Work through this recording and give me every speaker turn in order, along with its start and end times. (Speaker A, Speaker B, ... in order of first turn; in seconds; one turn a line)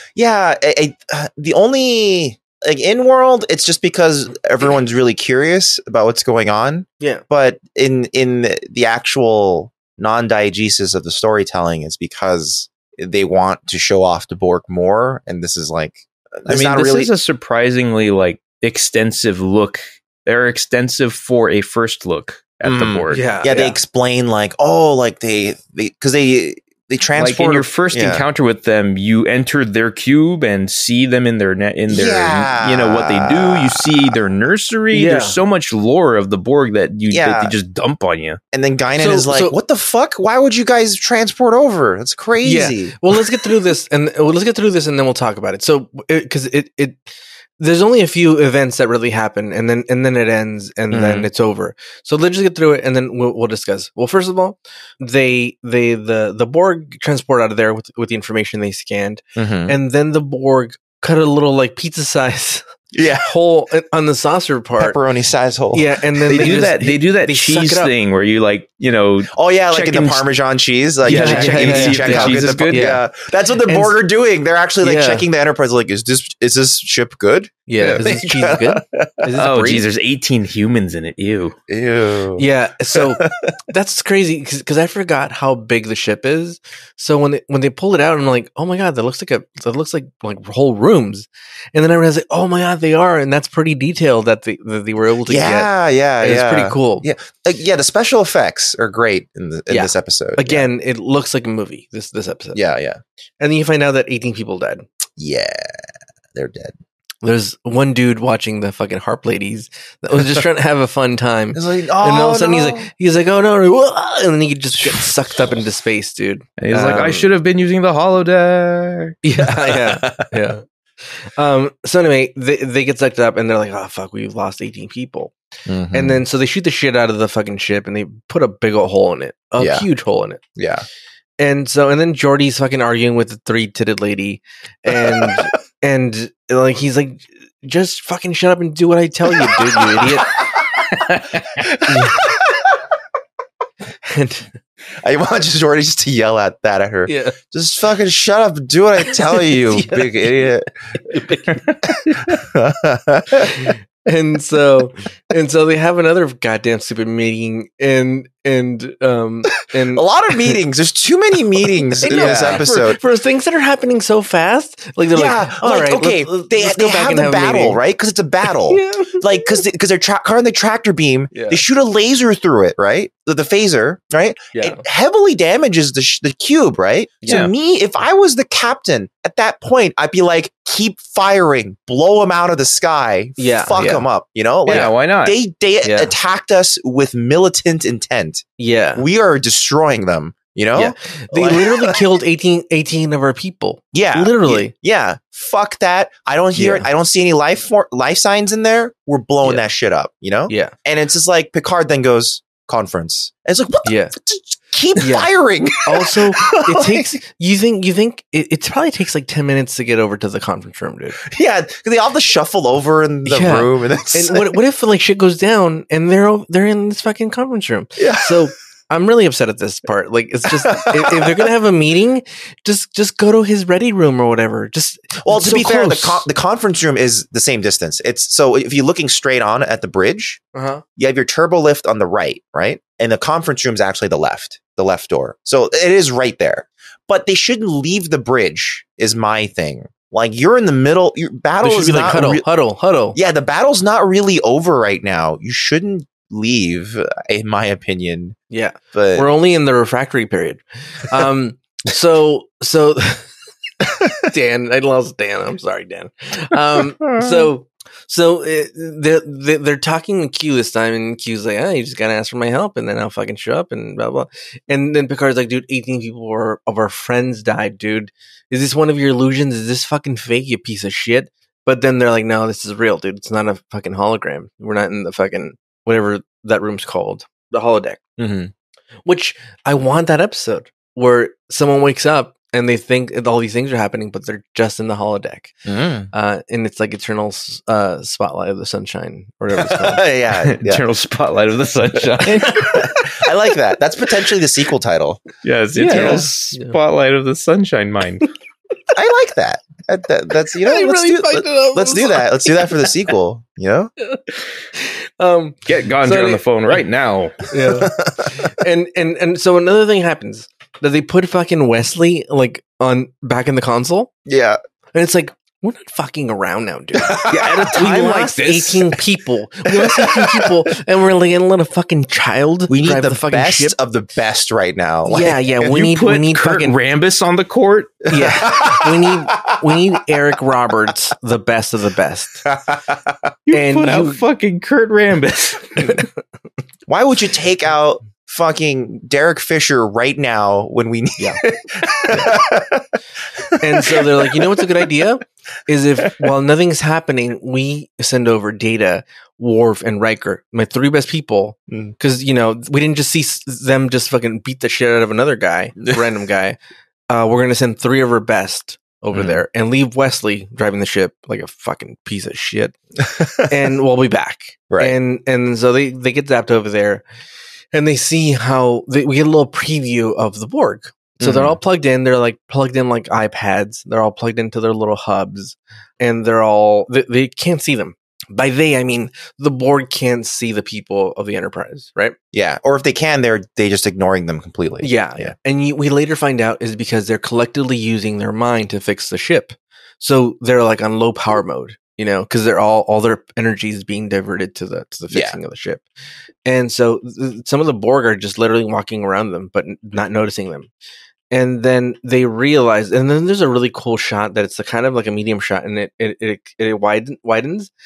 Speaker A: 0.2-17.1
Speaker B: 16.5-23.3
Speaker A: 22.6-28.3
Speaker C: 23.1-23.8
Speaker B: 27.2-38.4
Speaker A: 31.9-34.2
Speaker C: 34.9-35.4
Speaker A: 37.1-37.5
Speaker A: 38.5-43.0
Speaker C: 39.0-39.6
Speaker C: 42.4-47.0
Speaker C: 47.6-62.6
Speaker A: 50.9-51.3
Speaker A: 59.4-59.8
Speaker A: 62.9-63.3
Speaker C: 63.2-65.0
Speaker A: 64.8-66.6
Speaker C: 65.7-67.9
Speaker B: 66.3-70.3
Speaker A: 69.3-79.4
Speaker C: 71.0-73.0
Speaker B: 71.1-72.9
Speaker C: 73.6-74.0
Speaker C: 74.8-75.3
Speaker C: 77.7-79.9
Speaker B: 79.4-81.6
Speaker A: 81.7-83.5
Speaker C: 82.4-97.1
Speaker A: 95.3-100.7
Speaker C: 99.7-102.6
Speaker A: 102.5-103.0
Speaker C: 103.4-104.8
Speaker A: 105.2-105.8
Speaker A: 106.3-106.8
Speaker C: 107.2-117.3
Speaker A: 111.5-112.9
Speaker B: 116.6-119.2
Speaker C: 119.2-125.3
Speaker A: 119.4-120.4
Speaker A: 125.7-126.2
Speaker C: 125.9-130.4
Speaker A: 129.6-129.9
Speaker A: 130.6-130.8
Speaker C: 131.4-140.4
Speaker A: 134.9-135.5
Speaker A: 139.3-140.8
Speaker A: 141.6-142.7
Speaker C: 141.9-142.3
Speaker C: 144.0-144.5
Speaker A: 145.0-151.0
Speaker C: 147.1-147.4
Speaker C: 149.5-150.1
Speaker C: 151.1-151.6
Speaker A: 151.8-153.7
Speaker C: 153.5-160.5
Speaker A: 159.9-163.0
Speaker C: 162.0-167.8
Speaker B: 162.2-162.5
Speaker A: 165.1-192.0
Speaker C: 168.7-169.6
Speaker C: 171.3-171.6
Speaker C: 174.5-174.8
Speaker C: 183.4-184.1
Speaker B: 184.7-185.4
Speaker C: 185.8-186.1
Speaker C: 188.6-189.1
Speaker C: 190.8-194.7
Speaker A: 193.9-207.1
Speaker C: 196.6-196.9
Speaker C: 200.5-200.7
Speaker C: 203.8-204.1
Speaker C: 205.0-205.3
Speaker C: 205.8-211.2
Speaker A: 211.2-214.6
Speaker C: 213.3-226.3
Speaker A: 218.0-218.5
Speaker A: 220.6-221.5
Speaker A: 225.2-230.4
Speaker C: 230.5-230.8
Speaker A: 231.0-242.5
Speaker C: 241.6-243.2
Speaker A: 243.1-248.4
Speaker C: 248.5-253.3
Speaker A: 248.9-249.3
Speaker C: 253.8-278.0
Speaker A: 257.1-257.5
Speaker A: 278.2-278.5
Speaker C: 279.1-285.6
Speaker A: 285.6-286.1
Speaker C: 286.1-290.1
Speaker A: 289.6-290.8
Speaker B: 290.4-292.8
Speaker A: 292.2-295.3
Speaker B: 295.4-298.3
Speaker C: 295.8-296.8
Speaker A: 295.9-296.3
Speaker A: 298.9-303.9
Speaker C: 300.6-302.9
Speaker C: 304.8-306.8
Speaker B: 305.7-307.5
Speaker C: 307.5-314.1
Speaker A: 307.7-308.3
Speaker A: 314.3-314.6
Speaker C: 314.9-323.8
Speaker A: 317.0-317.5
Speaker B: 317.3-318.9
Speaker A: 319.7-320.5
Speaker A: 322.7-325.5
Speaker C: 325.1-326.8
Speaker B: 325.6-328.1
Speaker C: 328.1-332.5
Speaker A: 328.2-329.8
Speaker A: 332.5-333.1
Speaker B: 333.5-336.1
Speaker C: 333.5-334.2
Speaker A: 336.9-344.7
Speaker C: 343.6-356.6
Speaker A: 351.7-351.9
Speaker C: 357.1-362.8
Speaker A: 359.1-359.4
Speaker C: 363.4-367.0
Speaker A: 364.7-364.9
Speaker C: 367.7-382.2
Speaker A: 371.2-371.6
Speaker A: 382.3-385.3
Speaker C: 384.8-395.8
Speaker A: 395.1-395.4
Speaker C: 396.4-400.7
Speaker C: 401.3-407.7